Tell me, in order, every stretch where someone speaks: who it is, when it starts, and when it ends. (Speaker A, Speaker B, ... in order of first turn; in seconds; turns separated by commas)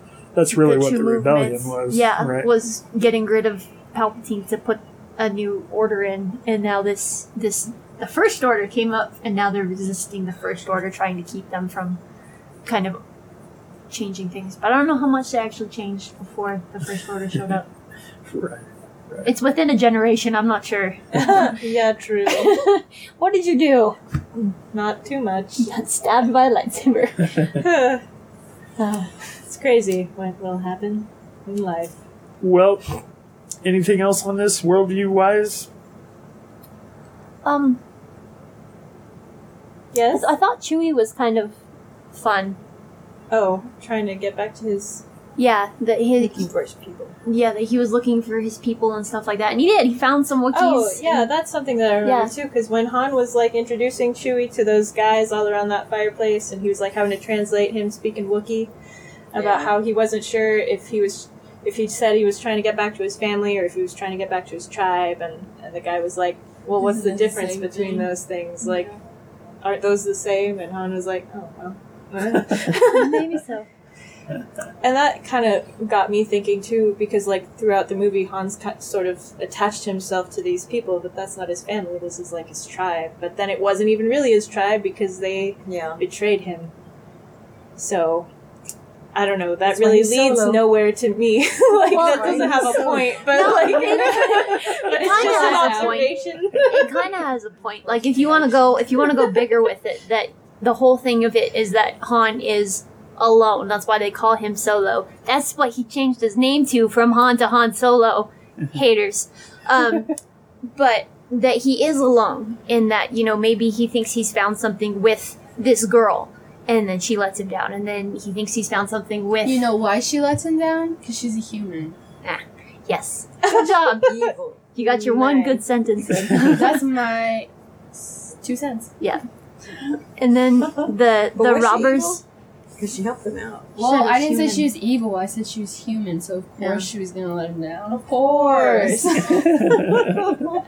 Speaker A: 0.3-2.5, Speaker B: 0.5-12.0, Speaker B: 12.7-13.0, Speaker B: 13.9-17.7, Speaker A: 18.2-19.3, Speaker B: 19.2-21.6, Speaker C: 21.2-22.6, Speaker B: 22.3-24.0, Speaker C: 24.4-25.7, Speaker B: 25.6-27.6, Speaker C: 27.6-28.0, Speaker B: 28.8-29.1, Speaker C: 29.5-32.0, Speaker A: 32.4-33.0, Speaker A: 33.6-35.7, Speaker B: 37.4-37.8, Speaker C: 39.9-40.2, Speaker B: 40.1-41.6, Speaker B: 42.1-42.6, Speaker C: 43.3-45.0, Speaker B: 45.4-46.5, Speaker D: 46.2-47.2, Speaker B: 47.2-51.3, Speaker C: 50.5-58.7, Speaker B: 52.0-52.3, Speaker C: 59.3-68.9, Speaker D: 59.4-59.7, Speaker E: 66.8-68.1, Speaker E: 68.6-68.9, Speaker C: 69.6-73.3, Speaker B: 72.8-73.7, Speaker C: 74.8-86.7, Speaker D: 85.7-86.0, Speaker C: 87.8-88.3, Speaker C: 89.1-96.9, Speaker D: 89.6-90.6, Speaker D: 91.9-96.0, Speaker B: 91.9-110.1, Speaker D: 97.8-99.3, Speaker B: 110.7-119.7, Speaker E: 119.4-122.0, Speaker B: 122.2-124.1, Speaker D: 124.0-124.6, Speaker B: 124.8-126.8, Speaker C: 124.8-125.6, Speaker E: 126.5-127.5, Speaker E: 128.2-128.9, Speaker B: 130.2-132.2, Speaker D: 131.3-132.2, Speaker D: 132.8-133.8, Speaker E: 133.8-139.4, Speaker B: 133.8-134.7, Speaker B: 136.6-136.9, Speaker C: 138.0-139.5, Speaker A: 139.3-140.4